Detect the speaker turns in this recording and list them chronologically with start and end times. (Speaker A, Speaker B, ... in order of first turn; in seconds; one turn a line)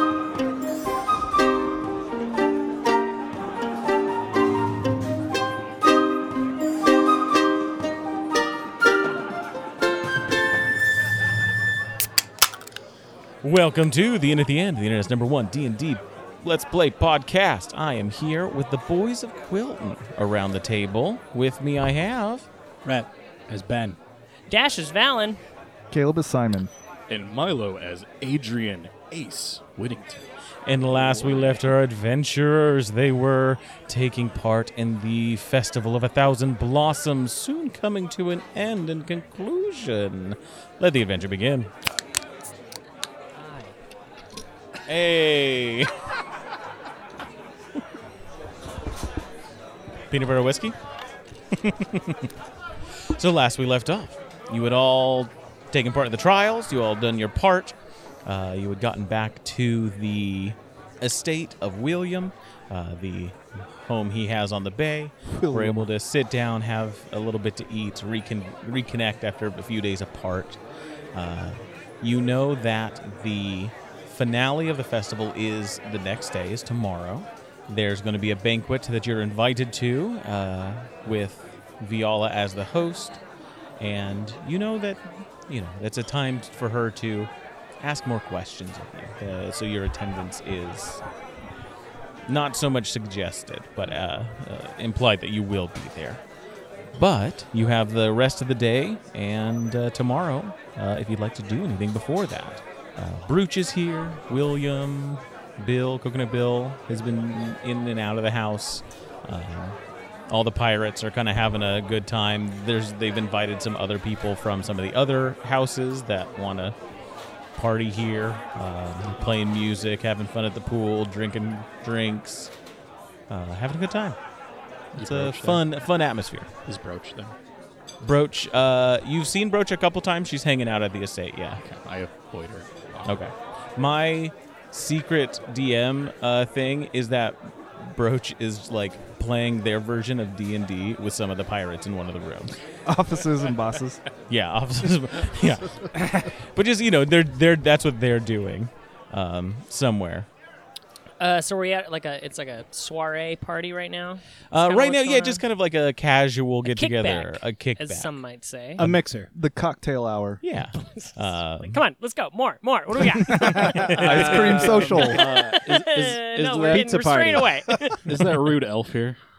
Speaker A: 13.4-22.5
Speaker B: 22.9-24.0
Speaker C: 24.5-25.4
Speaker D: 25.9-26.7
Speaker E: 27.1-30.3
Speaker A: 30.7-41.7
Speaker E: 31.1-31.6
Speaker C: 43.3-43.8
Speaker A: 44.9-45.9
Speaker A: 50.1-50.8
Speaker A: 51.5-52.3
Speaker A: 53.1-70.6
Speaker D: 65.3-65.8
Speaker A: 71.1-83.2
Speaker A: 83.8-91.0
Speaker A: 92.3-96.2
Speaker A: 97.0-109.8
Speaker A: 110.3-116.8
Speaker A: 117.5-122.5
Speaker A: 123.3-124.2
Speaker A: 124.9-126.5
Speaker E: 125.0-125.6
Speaker E: 126.7-127.3
Speaker A: 128.0-131.6
Speaker E: 131.6-133.2
Speaker A: 133.1-142.5
Speaker D: 142.9-144.0
Speaker A: 144.3-150.3
Speaker C: 151.2-155.4
Speaker A: 154.5-158.1
Speaker C: 156.7-158.8
Speaker B: 158.8-159.3
Speaker D: 159.3-160.4
Speaker A: 160.4-161.8
Speaker C: 160.8-168.0
Speaker D: 163.3-165.2
Speaker A: 163.4-165.6
Speaker E: 164.0-166.9
Speaker B: 166.6-167.6
Speaker E: 168.0-169.2